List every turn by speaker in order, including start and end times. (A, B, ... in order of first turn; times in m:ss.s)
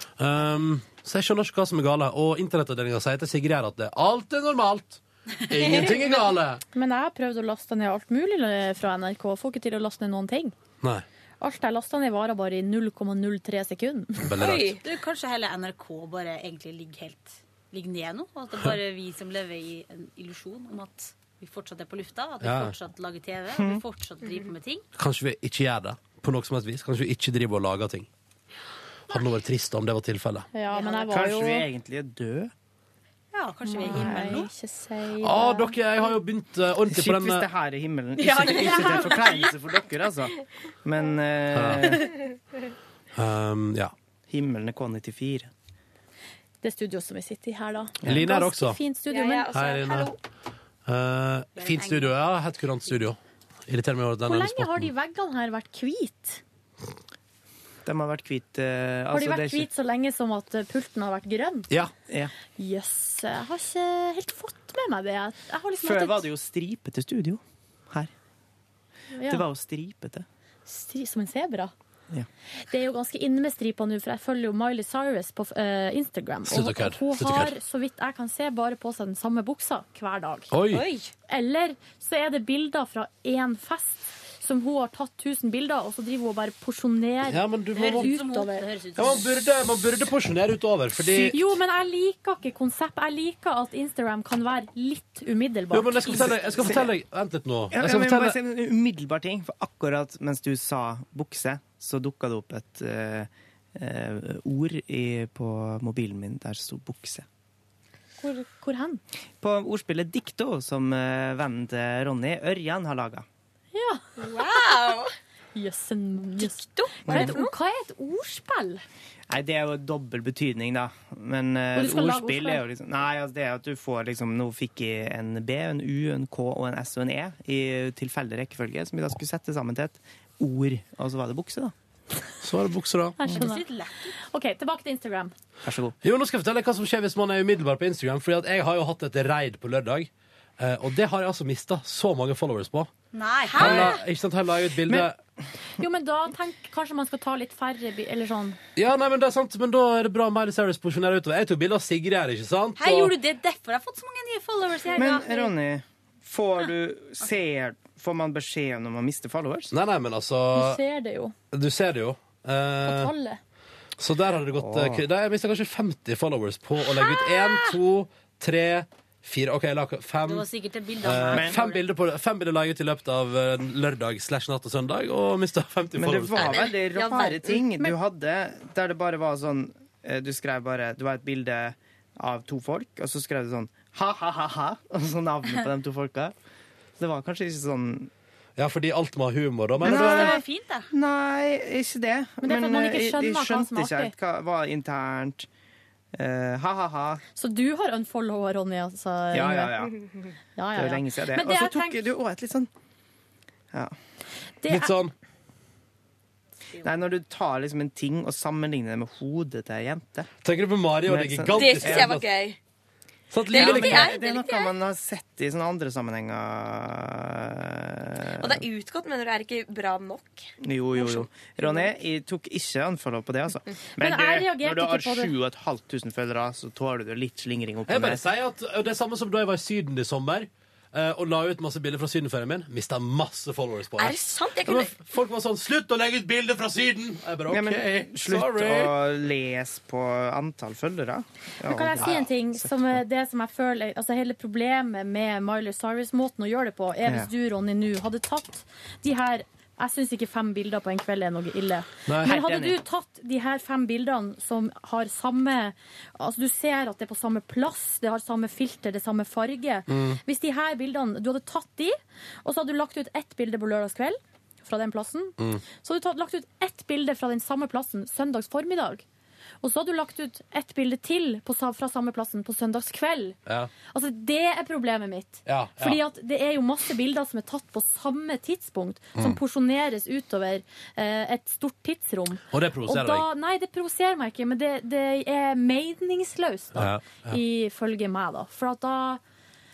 0:00.2-0:06.6 A
0:05.6-0:06.0 B
0:06.7-0:10.5 C
0:11.4-0:14.3 C
0:14.2-0:14.8 A
0:14.4-0:14.8 B
0:14.7-0:24.8 D
0:22.4-0:22.8 A
0:23.5-0:23.8 E
0:25.0-0:28.1 A
0:29.1-0:30.5 A
0:30.5-0:31.6 C
0:30.7-0:31.0 D
0:31.1-0:32.5 E
0:33.3-0:34.5 D
0:33.6-0:35.7 C
0:35.2-0:37.5 A
0:36.9-0:42.1 E
0:38.2-0:39.2 B
0:38.8-0:39.5 D
0:41.5-0:42.0 A
0:43.1-0:43.9 A
0:44.3-0:45.5 E
0:46.6-0:49.5 C
0:48.0-0:48.8 A
0:49.1-0:50.2 B
0:49.5-0:50.1 A
0:50.8-0:54.9 A
0:51.6-0:52.3 D
0:54.2-0:56.4 C
0:57.8-0:59.7 E
0:59.1-1:01.7 C
1:02.6-1:06.3 C
1:05.8-1:08.1 E
1:09.1-1:09.4 C
1:09.3-1:10.2 E
1:10.7-1:11.7 C
1:12.7-1:20.5 C
1:16.4-1:17.5 A
1:20.5-1:20.8 A
1:20.7-1:21.1 B
1:21.3-1:28.6 C
1:27.3-1:28.1 A
1:27.7-1:29.2 D
1:29.0-1:31.5 A
1:31.1-1:36.3 C
1:35.7-1:38.4 A
1:36.1-1:36.9 E
1:37.7-1:47.2 E
1:48.2-1:49.0 C
1:49.4-1:53.2 E
1:53.7-1:54.1 C
1:54.2-1:55.1 B
1:55.5-1:58.8 C
1:56.4-1:57.5 B
1:57.0-1:57.4 E
1:59.3-2:11.7 E
2:01.7-2:02.6 C
2:12.4-2:13.2 A
2:13.2-2:13.6 C
2:13.3-2:14.1 D
2:14.2-2:15.3 C
2:15.6-2:15.9 E
2:16.0-2:22.9 A
2:23.1-2:23.7 D
2:23.6-2:25.2 A
2:23.6-2:23.9 E
2:25.8-2:28.6 C
2:28.8-2:33.2 A
2:32.8-2:35.2 D
2:34.9-2:39.7 E
2:35.0-2:35.5 C
2:39.7-2:40.8 A
2:40.5-2:41.3 C
2:41.5-2:43.1 A
2:42.8-2:43.4 C
2:44.0-2:50.5 A
2:44.6-2:45.0 E
2:50.2-2:51.8 D
2:51.0-2:56.6 A
2:51.3-2:51.6 E
2:56.0-3:06.3 E
2:56.4-2:57.6 B
3:07.0-3:08.1 E
3:08.6-3:10.4 A
3:09.8-3:15.5 E
3:09.8-3:10.9 D
3:12.4-3:14.1 C
3:16.1-3:17.2 E
3:17.4-3:19.9 C
3:19.3-3:20.0 E
3:20.6-3:22.0 C
3:20.7-3:22.7 E
3:24.6-3:24.9 C
3:24.7-3:25.1 A
3:26.8-3:30.3 E
3:30.4-3:32.3 A
3:31.0-3:32.2 E
3:31.6-3:32.6 B
3:33.3-3:34.2 A
3:33.5-3:34.7 B
3:33.5-3:38.6 E
3:38.4-3:41.8 B
3:40.6-3:48.2 E
3:44.0-3:45.3 C
3:47.9-3:58.9 A
3:54.0-3:54.9 B
3:57.5-4:02.7 E
4:01.6-4:29.0 C
4:12.1-4:12.3 A
4:12.2-4:12.8 E
4:19.9-4:20.2 A
4:25.4-4:25.6 A
4:29.6-4:33.4 C
4:33.4-4:33.7 A
4:33.9-4:49.2 C
4:35.4-4:36.0 A
4:42.5-4:43.3 A
4:46.7-4:47.4 A